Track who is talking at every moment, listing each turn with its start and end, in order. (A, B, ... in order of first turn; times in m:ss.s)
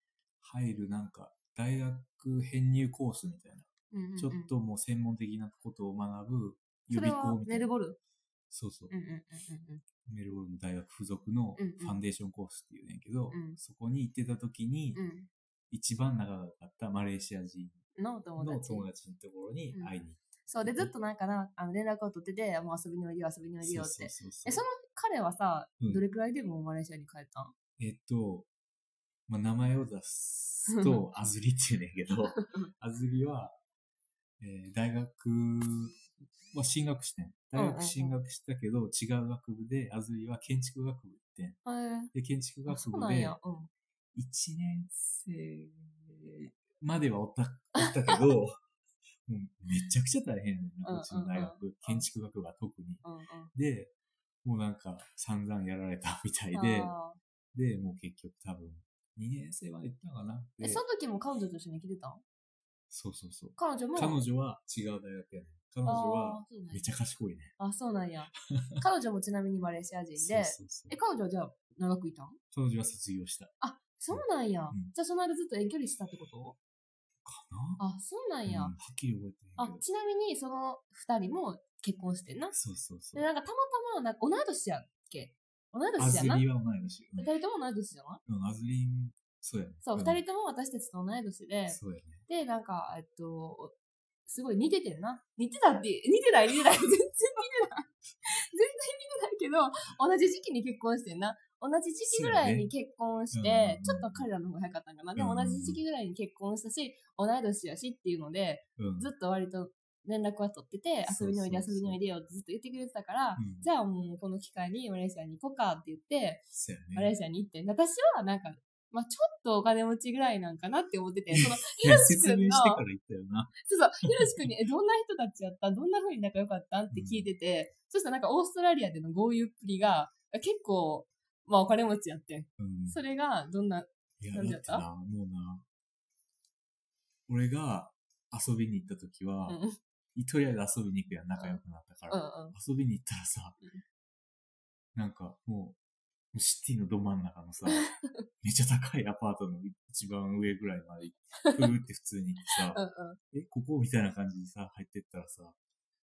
0:00.4-0:07.7 A
0:03.9-0:04.5 B
0:06.9-0:08.0 B
0:08.5-0:08.9 A
0:08.9-0:09.8 B
0:10.0-0:15.0 A
0:11.6-0:12.0 B
0:13.3-0:13.6 B
0:14.9-0:15.3 B
0:15.7-0:17.8 A
0:18.0-0:18.9 B
0:18.4-0:20.9 A
0:20.5-0:27.5 B
0:23.6-0:24.6 A
0:27.8-0:28.5 A
0:29.3-0:33.6 A
0:30.7-0:31.0 B
0:34.4-0:36.0 A
0:36.5-0:41.6 A
0:37.5-0:38.2 B
0:41.6-0:42.1 B
0:42.1-0:43.4 A
0:42.7-0:43.7 B
0:44.1-0:48.6 A
0:47.8-0:48.2 B
0:49.2-0:53.9 A
0:50.8-0:52.0 B
0:53.0-0:53.5 B
0:54.4-0:56.9 A
0:56.5-0:57.2 B
0:57.5-1:00.8 A
1:00.6-1:02.2 B
1:02.9-1:07.5 A
1:03.6-1:04.2 B
1:05.8-1:06.9 B
1:07.6-1:12.4 B
1:10.2-1:11.0 A
1:12.5-1:13.5 A
1:13.6-1:16.6 B
1:14.1-1:14.9 A
1:17.2-1:17.8 A
1:17.8-1:18.7 B
1:18.4-1:19.8 A
1:19.6-1:22.6 B
1:22.5-1:23.3 A
1:23.1-1:26.4 B
1:26.0-1:27.3 A
1:27.2-1:28.2 B
1:28.3-1:30.2 A
1:29.8-1:33.7 B
1:31.7-1:32.2 A
1:34.2-2:02.8 B
1:42.0-1:42.7 A
1:43.3-1:44.3 A
1:45.2-1:45.8 A
1:48.8-1:49.1 A
1:51.0-1:52.0 A
1:53.4-1:53.7 A
1:56.5-1:57.1 A
2:01.3-2:03.6 A
2:03.6-2:14.8 B
2:06.9-2:07.3 A
2:12.6-2:13.0 A
2:14.2-2:15.6 A
2:17.3-2:19.6 A
2:19.5-2:19.7 B
2:20.1-2:23.6 A
2:21.4-2:22.5 B
2:24.9-2:25.8 A
2:26.3-2:32.8 A
2:27.7-2:28.2 B
2:31.4-2:31.7 B
2:32.7-2:33.2 B
2:33.3-2:35.6 A